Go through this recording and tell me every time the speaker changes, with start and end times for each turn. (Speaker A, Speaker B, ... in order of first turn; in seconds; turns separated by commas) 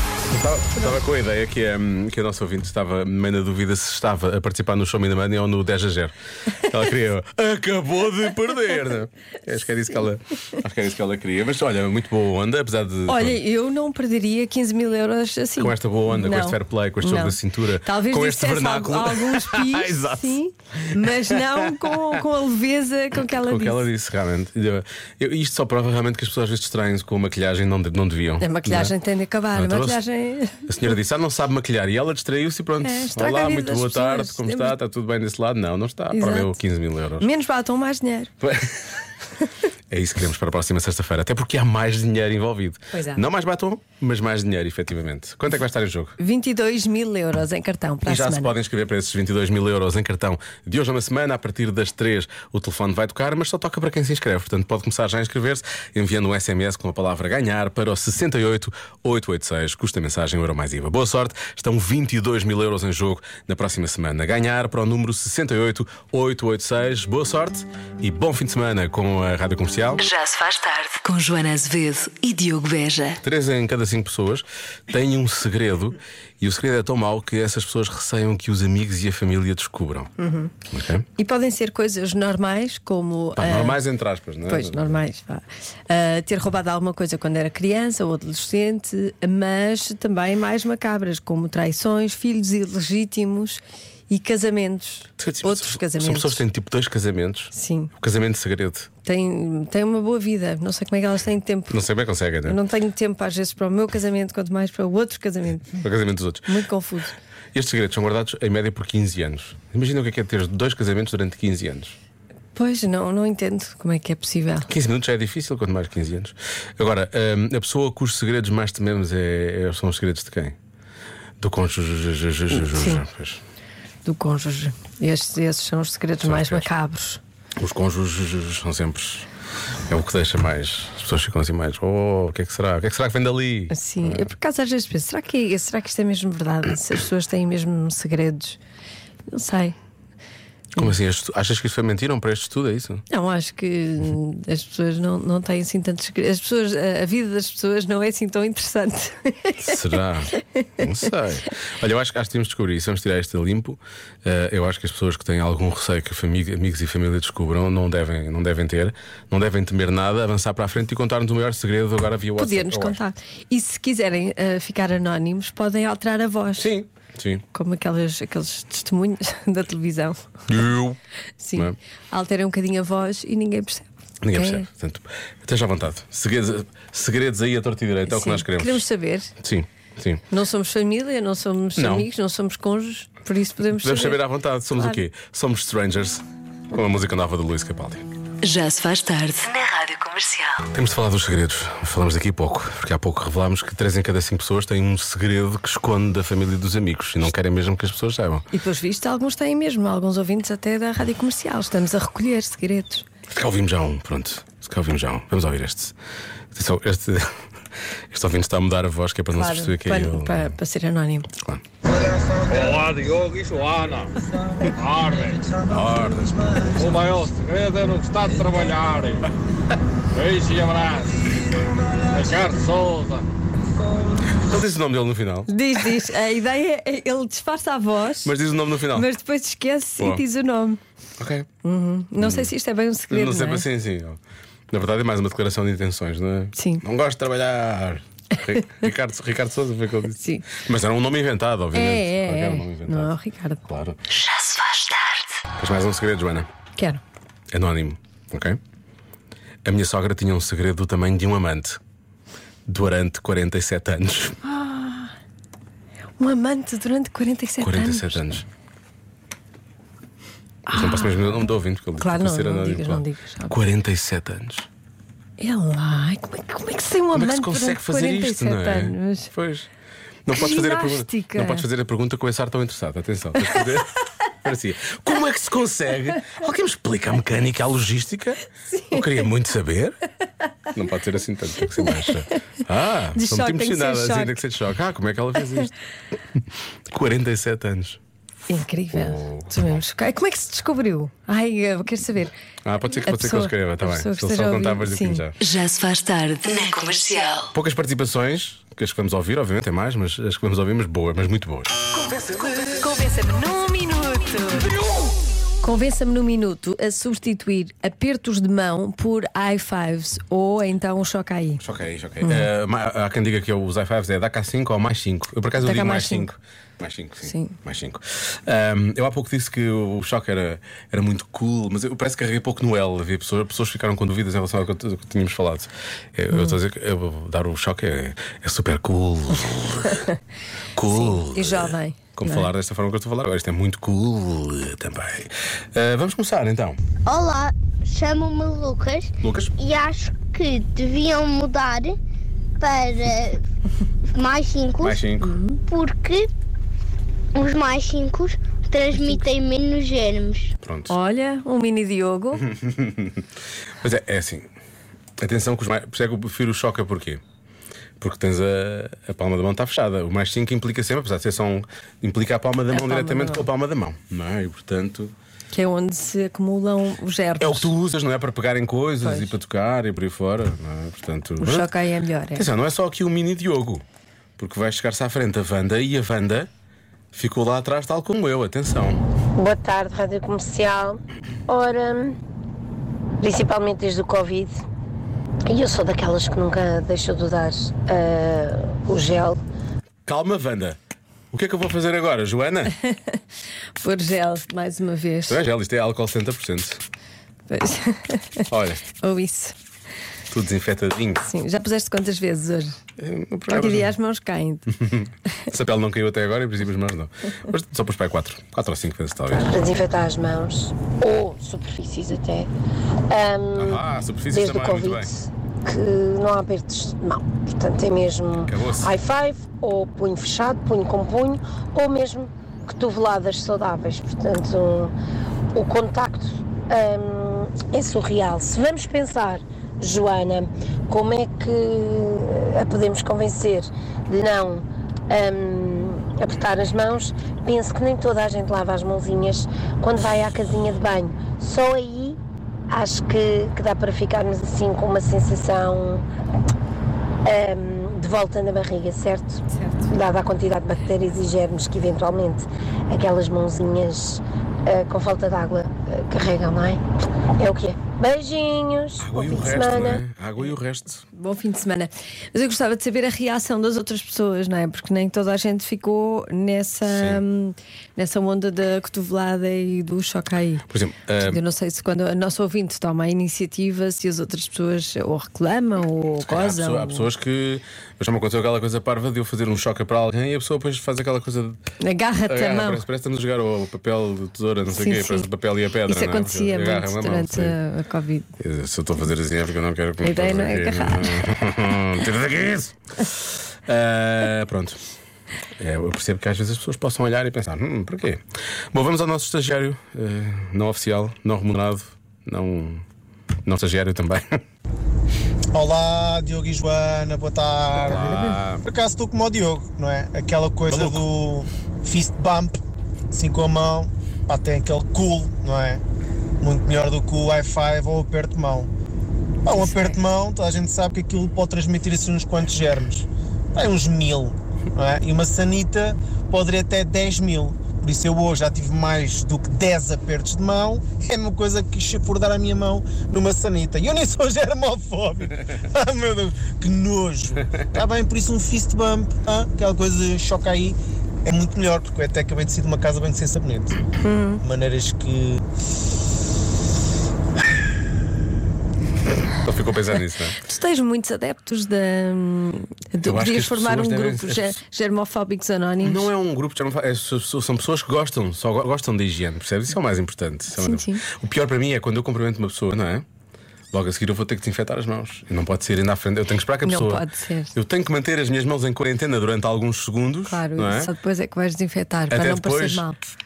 Speaker A: 0.3-13.4, Speaker B: 13.1-23.9, Speaker A: 15.6-20.3, Speaker A: 21.0-21.7, Speaker A: 23.3-28.9, Speaker B: 28.4-30.6, Speaker A: 29.5-30.0, Speaker A: 30.6-37.3, Speaker B: 32.8-34.8, Speaker B: 36.1-36.5, Speaker B: 37.2-38.3, Speaker A: 38.4-38.8, Speaker A: 39.9-46.1, Speaker B: 42.9-43.2, Speaker B: 46.2-48.5, Speaker A: 48.0-70.0, Speaker C: 70.0-73.2, Speaker A: 73.2-80.1, Speaker B: 80.2-80.5, Speaker A: 80.7-81.0, Speaker B: 81.2-83.8, Speaker A: 83.3-84.9, Speaker B: 84.5-96.4, Speaker A: 95.2-98.9, Speaker B: 97.5-97.9, Speaker B: 99.0-101.8, Speaker A: 101.7-102.6, Speaker B: 102.4-105.7, Speaker A: 105.8-106.5, Speaker B: 106.5-107.1, Speaker A: 107.5-112.0, Speaker B: 112.5-114.7, Speaker A: 114.7-120.5, Speaker A: 121.4-123.4, Speaker B: 122.6-123.0, Speaker B: 124.0-127.2, Speaker A: 126.2-126.7, Speaker A: 127.6-129.3, Speaker A: 129.9-134.3, Speaker B: 133.7-138.6, Speaker B: 139.3-139.7, Speaker A: 140.8-143.0, Speaker B: 143.1-149.8, Speaker A: 149.6-163.0, Speaker B: 150.4-150.9, Speaker B: 162.4-166.7, Speaker A: 166.6-167.4, Speaker B: 167.5-170.2, Speaker A: 170.5-171.0, Speaker B: 171.4-174.7, Speaker A: 174.2-178.8, Speaker B: 178.1-179.3, Speaker A: 179.4-180.2, Speaker B: 180.3-184.2, Speaker A: 181.8-182.1, Speaker A: 183.8-188.0, Speaker B: 184.7-185.0, Speaker C: 188.4-190.7, Speaker A: 190.7-198.4, Speaker B: 198.5-203.0, Speaker A: 203.3-205.9, Speaker A: 206.5-207.4, Speaker A: 208.1-210.5, Speaker B: 209.3-211.3, Speaker A: 211.3-211.6, Speaker D: 212.2-214.1, Speaker D: 214.7-215.6, Speaker A: 215.7-216.6, Speaker D: 216.8-219.2, Speaker D: 220.1-221.2, Speaker D: 222.1-223.2, Speaker A: 224.3-225.5, Speaker B: 225.5-228.3, Speaker A: 228.2-229.1, Speaker B: 228.9-230.8, Speaker A: 231.2-231.5, Speaker B: 231.6-233.7, Speaker A: 232.2-232.5, Speaker A: 233.1-234.2, Speaker A: 234.7-243.1, Speaker B: 236.6-236.8, Speaker B: 240.2-240.5, Speaker B: 241.7-243.6, Speaker A: 243.6-244.0, Speaker C: 244.1-245.3, Speaker A: 245.6-246.5, Speaker A: 247.5-248.6, Speaker A: 249.6-251.8, Speaker A: 252.7-254.4, Speaker B: 254.4-255.1, Speaker B: 256.2-258.2, Speaker A: 257.6-258.4, Speaker B: 260.7-263.5, Speaker A: 260.7-264.6, Speaker B: 265.4-269.3, Speaker A: 267.1-269.7, Speaker A: 270.2-280.0, Speaker B: 270.3-271.7, Speaker B: 278.7-279.3, Speaker A: 280.7-285.7, Speaker B: 281.8-282.1, Speaker B: 283.1-284.4, Speaker A: 286.9-288.0, Speaker B: 288.5-292.3, Speaker A: 288.9-289.8, Speaker A: 292.6-295.3, Speaker B: 293.0-295.2, Speaker C: 295.4-297.5, Speaker A: 297.5-301.7, Speaker B: 302.0-304.8, Speaker B: 305.6-311.6, Speaker A: 311.6-330.1, Speaker B: 312.2-312.5, Speaker B: 315.6-316.3, Speaker B: 317.2-317.6, Speaker B: 326.3-326.6, Speaker B: 329.9-330.1, Speaker A: 330.7-336.8, Speaker B: 330.8-332.5, Speaker E: 337.0-341.9, Speaker A: 339.2-339.5, Speaker E: 342.6-343.4, Speaker E: 344.1-345.0, Speaker A: 344.8-345.4, Speaker B: 345.2-345.6, Speaker E: 345.7-346.3, Speaker E: 347.3-350.5, Speaker A: 350.6-350.9, Speaker B: 350.9-352.4, Speaker A: 352.4-353.2, Speaker A: 353.8-354.5, Speaker A: 355.2-357.2, Speaker A: 358.0-365.1, Speaker B: 362.7-363.5, Speaker B: 365.5-367.7, Speaker A: 367.4-371.7, Speaker B: 369.0-369.3, Speaker B: 371.4-372.5, Speaker A: 372.3-373.8, Speaker A: 374.4-376.5, Speaker A: 377.1-379.0, Speaker F: 379.4-382.2, Speaker F: 383.2-384.6, Speaker F: 385.5-389.4, Speaker A: 390.1-390.8, Speaker A: 391.3-392.7, Speaker B: 392.8-393.2, Speaker B: 393.8-395.4, Speaker A: 395.3-396.8, Speaker B: 397.5-399.6, Speaker A: 398.5-398.9, Speaker A: 400.3-401.2, Speaker B: 401.2-402.8, Speaker A: 403.0-403.9, Speaker B: 403.5-404.6, Speaker A: 404.7-409.5, Speaker F: 409.4-412.5, Speaker F: 413.1-424.9, Speaker A: 413.6-415.1, Speaker A: 418.4-418.9, Speaker F: 425.5-442.2, Speaker F: 442.7-446.0, Speaker F: 447.2-456.8, Speaker B: 449.5-449.8, Speaker F: 457.3-460.0, Speaker A: 459.0-461.0, Speaker B: 461.1-470.6, Speaker A: 466.9-467.2, Speaker A: 470.7-471.4, Speaker B: 471.2-477.1, Speaker A: 476.2-481.6, Speaker B: 481.8-482.8, Speaker A: 482.2-487.6, Speaker B: 484.7-485.3, Speaker B: 485.8-488.3, Speaker A: 488.4-494.8, Speaker B: 490.0-491.2, Speaker A: 495.6-502.8, Speaker A: 503.4-504.4, Speaker G: 505.5-512.6, Speaker A: 507.8-508.6, Speaker A: 510.7-511.0, Speaker G: 513.1-515.8, Speaker G: 516.4-518.7, Speaker G: 519.4-543.8, Speaker B: 519.6-519.9, Speaker B: 544.0-544.4, Speaker G: 544.4-545.4, Speaker A: 549.4-550.4, Speaker B: 550.4-556.1, Speaker A: 553.0-554.5, Speaker A: 555.8-563.0, Speaker B: 560.5-561.0, Speaker A: 563.7-570.9, Speaker B: 566.6-567.5, Speaker B: 570.3-573.0, Speaker A: 572.1-572.8